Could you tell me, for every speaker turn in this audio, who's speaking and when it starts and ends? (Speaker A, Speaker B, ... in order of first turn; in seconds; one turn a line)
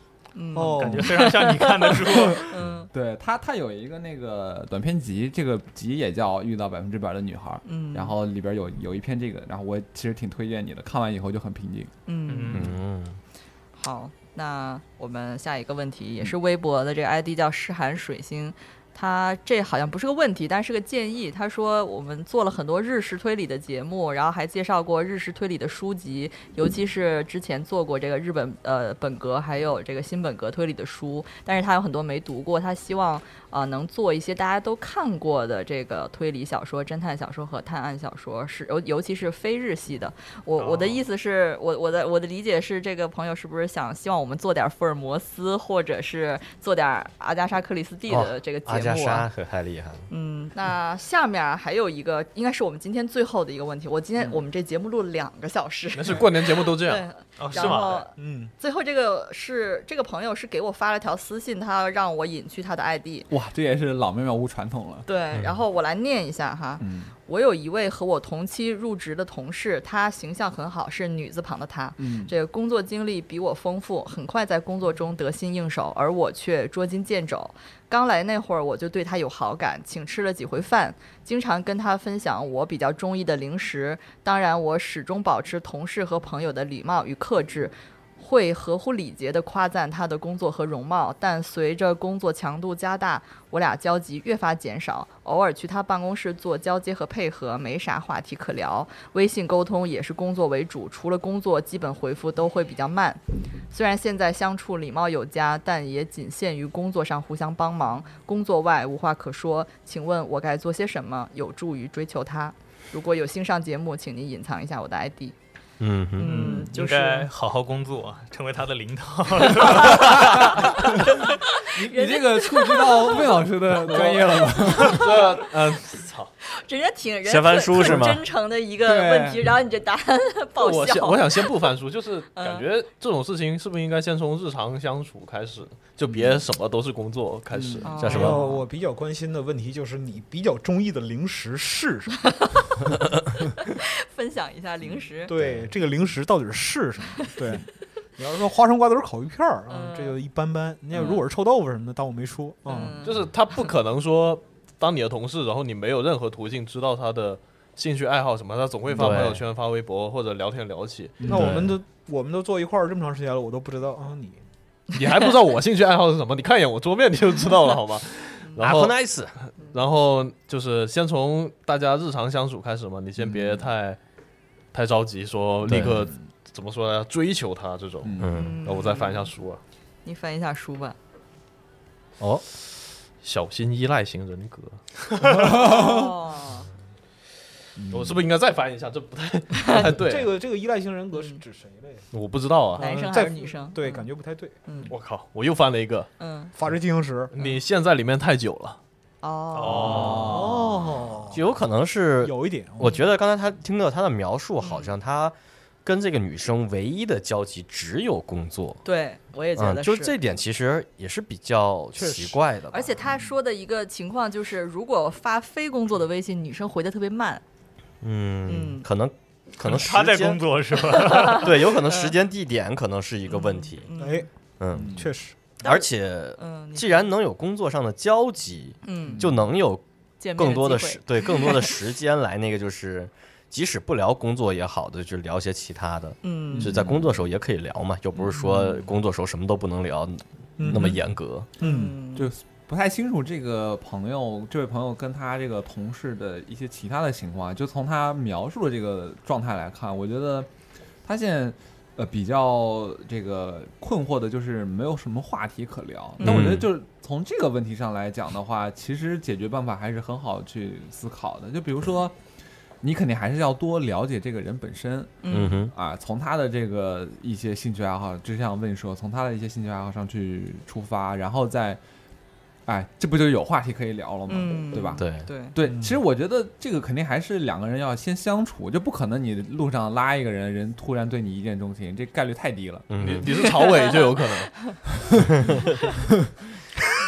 Speaker A: 0.3-2.9
Speaker B: 0.6-1.2
Speaker C: 0.7-2.6
Speaker D: 2.9-11.9
Speaker A: 7.6-8.2
Speaker A: 12.1-12.7
Speaker C: 12.3-12.7
Speaker E: 12.5-13.2
Speaker A: 13.8-49.3
Speaker C: 40.6-41.0
Speaker E: 48.1-50.1
Speaker A: 50.1-63.3
Speaker F: 55.9-57.0
Speaker C: 57.4-58.1
Speaker B: 57.6-58.5
Speaker D: 63.3-65.0
Speaker A: 65.0-103.2
Speaker E: 65.3-65.6
Speaker D: 66.8-67.1
Speaker D: 72.0-72.3
Speaker A: 103.7-115.3
Speaker E: 115.8-116.6
Speaker A: 116.2-117.3
Speaker C: 116.2-121.0
Speaker A: 119.7-120.4
Speaker A: 121.2-124.3
Speaker D: 121.7-125.2
Speaker F: 124.7-126.3
Speaker A: 126.5-131.5
Speaker E: 127.3-128.2
Speaker D: 128.8-129.5
Speaker F: 130.6-137.9
Speaker A: 132.3-132.7
Speaker D: 136.1-136.4
Speaker D: 137.5-137.9
Speaker A: 137.8-138.6
Speaker E: 138.0-138.4
Speaker B: 138.1-142.2
Speaker A: 142.2-142.6
Speaker A: 143.6-145.3
Speaker B: 145.3-147.7
Speaker E: 145.4-145.7
Speaker B: 148.2-153.0
Speaker A: 149.7-150.2
Speaker A: 150.9-151.2
Speaker A: 152.7-153.7
Speaker F: 153.0-161.6
Speaker E: 159.0-159.4
Speaker D: 161.2-161.6
Speaker B: 161.2-164.4
Speaker E: 161.3-161.7
Speaker F: 164.9-174.0
Speaker E: 168.6-169.4
Speaker D: 173.2-173.7
Speaker F: 174.7-179.6
Speaker D: 175.6-176.1
Speaker D: 178.0-178.4
Speaker E: 178.2-178.5
Speaker A: 178.3-179.3
Speaker A: 180.1-180.9
Speaker F: 183.2-184.8
Speaker D: 185.4-186.0
Speaker A: 185.5-186.7
Speaker D: 187.8-188.2
Speaker F: 187.9-190.3
Speaker A: 189.6-189.8
Speaker B: 190.0-192.1
Speaker A: 191.1-191.4
Speaker F: 192.1-193.1
Speaker A: 192.8-194.1
Speaker B: 192.8-194.9
Speaker A: 194.7-194.9
Speaker F: 194.9-196.1
Speaker A: 196.2-196.5
Speaker B: 196.6-197.3
Speaker F: 197.3-198.8
Speaker A: 199.2-200.3
Speaker C: 199.5-200.4
Speaker D: 199.9-200.5
Speaker B: 200.2-201.5
Speaker E: 200.3-208.8
Speaker B: 202.2-203.0
Speaker A: 204.6-204.9
Speaker A: 208.8-210.2
Speaker E: 209.6-212.9
Speaker B: 211.9-212.4
Speaker A: 212.7-217.4
Speaker E: 218.0-220.4
Speaker A: 218.5-218.8
Speaker C: 219.6-221.5
Speaker A: 220.9-222.1
Speaker E: 221.3-223.9
Speaker A: 223.3-224.3
Speaker B: 224.0-224.3
Speaker E: 224.6-225.0
Speaker D: 224.7-225.1
Speaker B: 224.9-225.5
Speaker E: 225.6-229.8
Speaker A: 225.6-227.1
Speaker A: 228.8-229.2
Speaker D: 229.1-229.5
Speaker A: 230.2-231.7
Speaker E: 230.3-241.5
Speaker A: 236.2-236.8
Speaker D: 236.5-237.2
Speaker D: 238.2-238.8
Speaker B: 240.6-241.0
Speaker D: 240.7-241.0
Speaker B: 241.6-242.0
Speaker A: 241.6-242.3
Speaker D: 242.1-250.5
Speaker D: 251.0-262.2
Speaker E: 256.2-256.7
Speaker D: 262.8-271.8
Speaker A: 265.2-265.6
Speaker E: 265.3-265.7
Speaker D: 272.6-282.9
Speaker A: 274.3-275.6
Speaker E: 275.0-275.3
Speaker B: 275.6-275.9
Speaker E: 282.9-283.3
Speaker F: 283.0-284.6
Speaker A: 283.6-284.7